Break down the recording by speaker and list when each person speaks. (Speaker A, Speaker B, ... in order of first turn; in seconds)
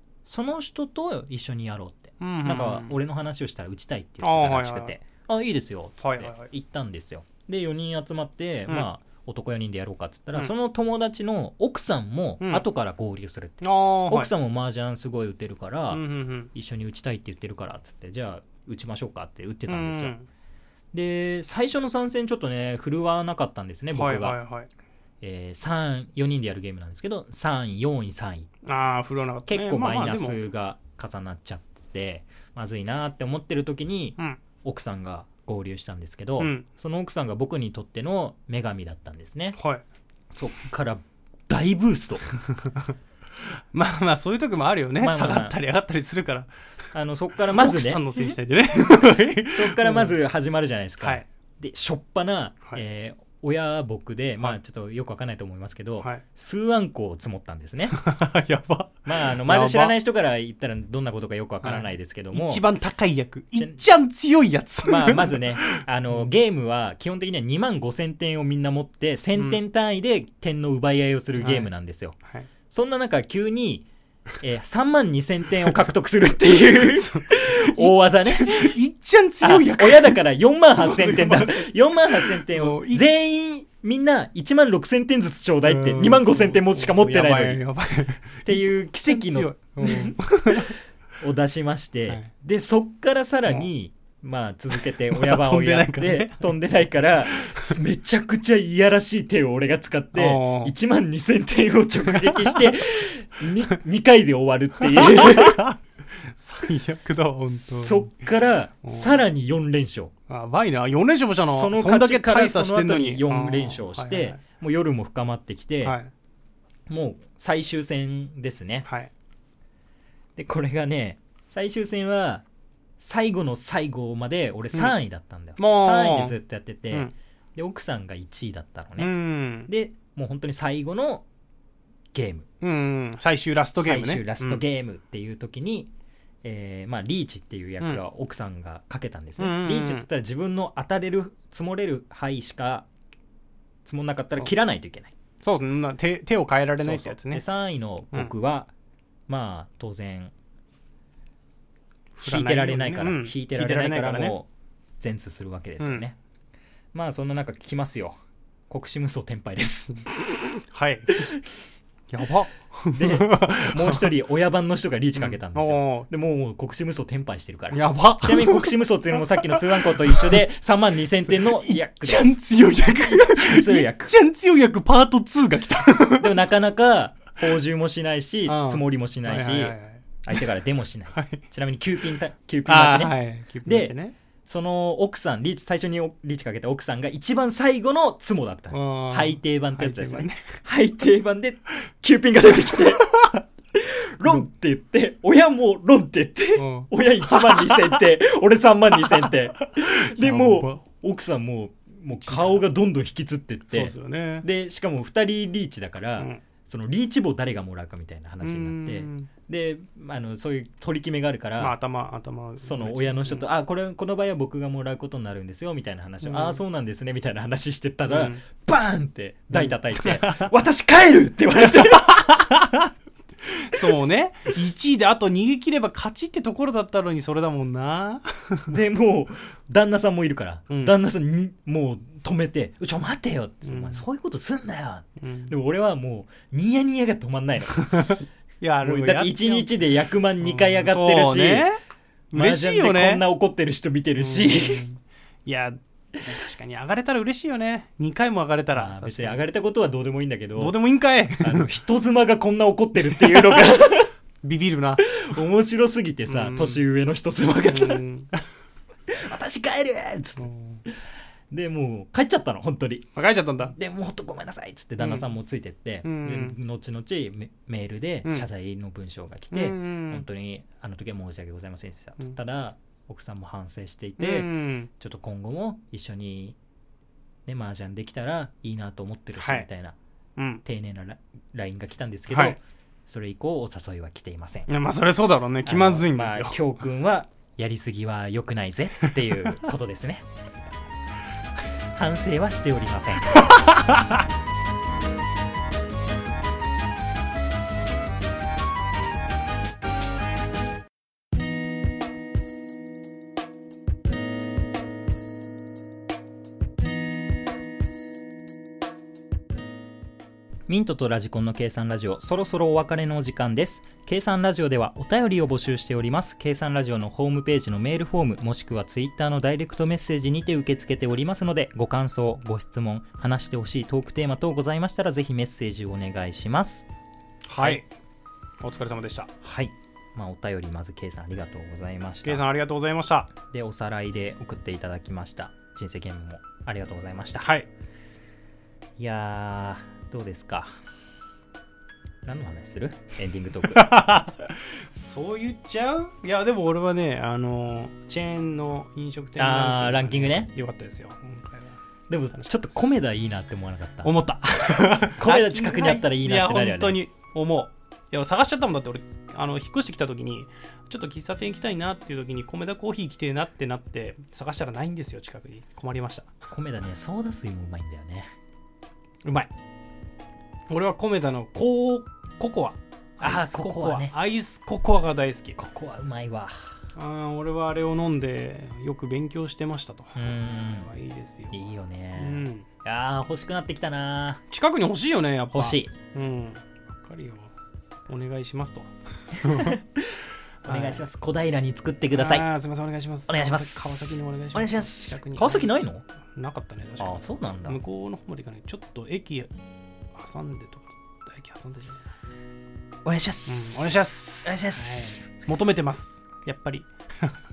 Speaker A: 0.2-20.1, 20.9-24.4, 25.2-28.5, 29.5-39.6, 40.3-42.3, 45.0-45.5, 46.9-48.3, 49.4-58.0, 59.0-62.6, 64.8-72.2, 72.7-73.9, 74.4-78.7, 79.4-87.6, 88.4-105.6, 107.5-110.1, 111.4-116.0, 116.9-118.9, 120.3-122.4, 123.0-129.1, 129.7-131.2, 132.1-132.4, 133.8-135.9, 136.4-142.8, 143.8-145.1, 146.8-148.7, 149.3-150.3, 152.2-154.5, 155.0-156.2, 156.9-158.2, 158.7-160.0, 162.9-172.4, 173.0-174.1, 176.2-183.9, 184.4-193.1, 193.7-211.7, 212.6-222.4, 228.7-238.2, 238.8-241.7, 242.3-244.8, 248.7-250.8, 251.4-254.1, 255.0-258.0, 259.1-260.5, 261.5-263.1, 263.6-276.6, 277.4-279.9, 280.6-284.7, 285.6-290.2, 291.9-293.5, 310.7-326.9, 327.6-327.8, 329.4-332.4, 333.5-337.5, 339.0-340.7, 342.2-343.9, 349.4-350.5, 352.1-354.1, 354.7-357.0, 366.5-368.3, 373.2-374.1, 375.6-376.7, 380.1-380.9, 381.5-384.4, 385.5-385.9, 389.4-392.4, 393.3-396.0, 397.0-397.8, 403.0-405.3
Speaker B: 2.2-3.0, 4.2-4.9, 6.0-6.5, 13.6-14.3, 15.9-16.5, 19.7-20.3, 23.9-24.7, 28.6-30.4, 36.4-36.6, 39.5-39.8, 43.4-46.5, 47.5-50.1, 57.9-60.0, 61.6-66.3, 71.4-71.7, 76.8-80.2, 80.8-83.0, 85.7-90.7, 94.7-96.5, 97.4-97.8, 100.1-100.7, 102.0-102.7, 104.8-108.3, 108.8-109.2, 110.3-114.4, 115.8-116.1, 118.8-119.1, 125.6-126.4, 129.0-129.7, 132.6-134.6, 139.4-140.1, 145.4-147.4, 152.1-154.3, 160.1-161.3, 162.1-164.1, 165.2-166.1, 167.7-170.4, 171.2-176.4, 178.4-180.4, 181.1-181.4, 182.7-184.1, 188.7-190.6, 196.6-197.9, 199.1-200.8, 202.2-202.6, 203.7-204.4, 208.4-209.3, 211.6-213.4, 216.2-216.6, 218.1-218.4, 219.5-220.5, 221.7-222.9, 223.4-228.7, 233.6-234.0, 235.2-235.5, 237.8-239.7, 240.4-241.8, 242.3-243.2, 244.2-249.4, 250.6-251.7, 253.0-253.7, 254.4-255.0, 256.3-256.8, 257.7-258.4, 260.4-260.8, 263.1-263.7, 265.0-265.2, 266.0-266.6, 269.5-270.2, 274.2-274.9, 279.4-279.7, 280.4-280.6, 282.3-282.6, 284.7-286.6, 293.5-294.2, 327.4-327.9, 328.6-329.3, 332.2-333.3, 337.4-337.7, 343.7-351.8, 354.0-366.3, 369.2-369.5, 370.7-375.6, 376.9-382.7, 384.5-387.5, 388.1-389.8, 390.6-391.1, 392.1-395.7, 396.3-399.5, 400.1-402.1, 403.4-407.3